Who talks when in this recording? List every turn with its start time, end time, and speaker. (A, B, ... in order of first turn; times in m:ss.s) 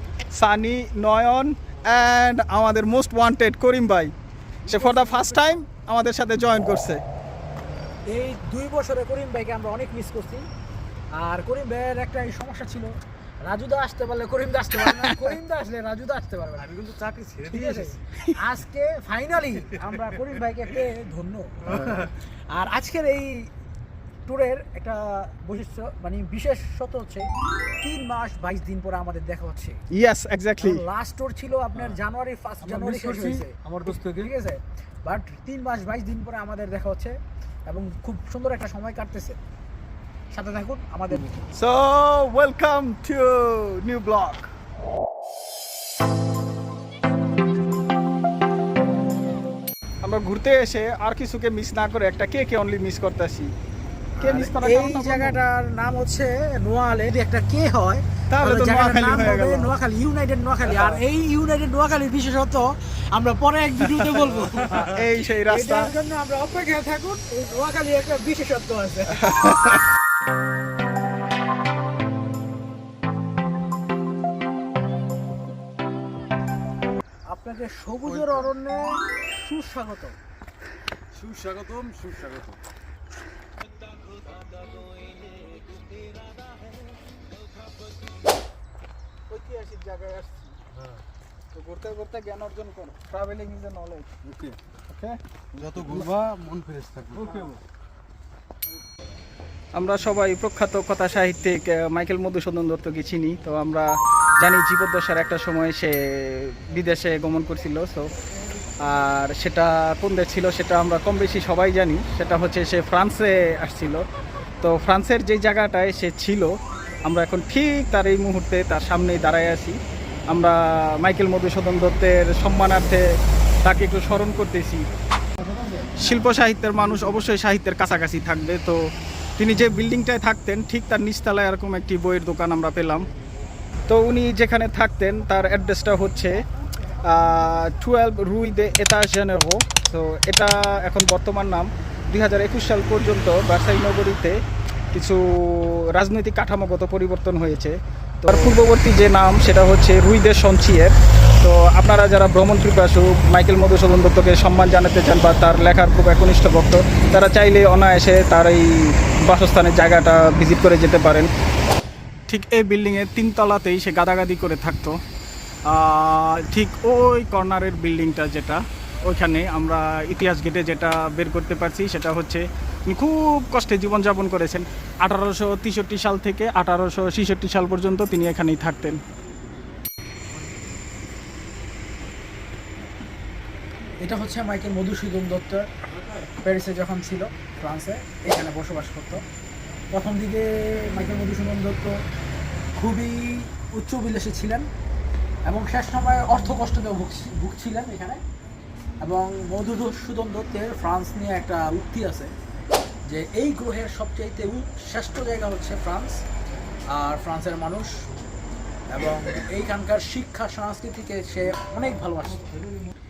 0:00.3-0:04.1 A
0:04.7-0:07.0 A
0:04.7-0:05.2 B
0:08.1-0:10.5 B
0:11.2-0:12.9 B
0:13.4-0:16.7 B
0:14.9-0:15.3 A
0:16.6-0:18.0 C
0:17.5-0:23.5 B
0:21.7-0:22.0 C
0:24.3-0:27.3 B
0:27.8-0:29.8 B
0:29.9-0:30.8 A
0:30.6-0:37.2 B
0:33.2-0:34.0 C
0:37.7-0:39.4 B
0:40.3-0:41.4 B
0:41.5-0:44.5 A
0:50.0-0:53.5 A
0:54.2-0:55.4 A
0:54.2-1:09.2 B
0:58.3-0:59.7 A
1:00.7-1:01.0 A
1:04.8-1:05.9 A
1:09.2-1:09.9 A
1:17.3-1:20.2 B
1:18.1-1:18.4 A
1:21.1-1:22.6 C
1:24.0-1:27.2 A
1:29.3-1:30.6 A
1:31.5-1:34.1 A
1:34.3-1:34.6 C
1:34.9-1:35.2 A
1:35.5-1:37.5 C
1:37.2-1:37.6 A
1:39.8-1:48.1 A
1:48.8-1:54.0 A
1:54.6-1:56.5 A
1:57.1-1:59.8 A
2:00.3-2:04.9 A
2:05.4-2:06.0 B
2:06.0-2:08.8 A
2:09.4-2:13.1 A
2:13.9-2:16.4 A
2:17.0-2:24.4 A
2:24.9-2:41.3 A
2:42.3-2:45.0 A
2:45.7-2:59.0 A
3:04.0-3:05.7 B
3:06.4-3:09.2 B
3:09.9-3:11.9 B
3:12.8-3:14.7 B
3:15.5-3:18.2 B
3:19.0-3:22.3 B
3:23.1-3:26.2 B
3:26.9-3:28.0 B
3:28.9-3:32.6 B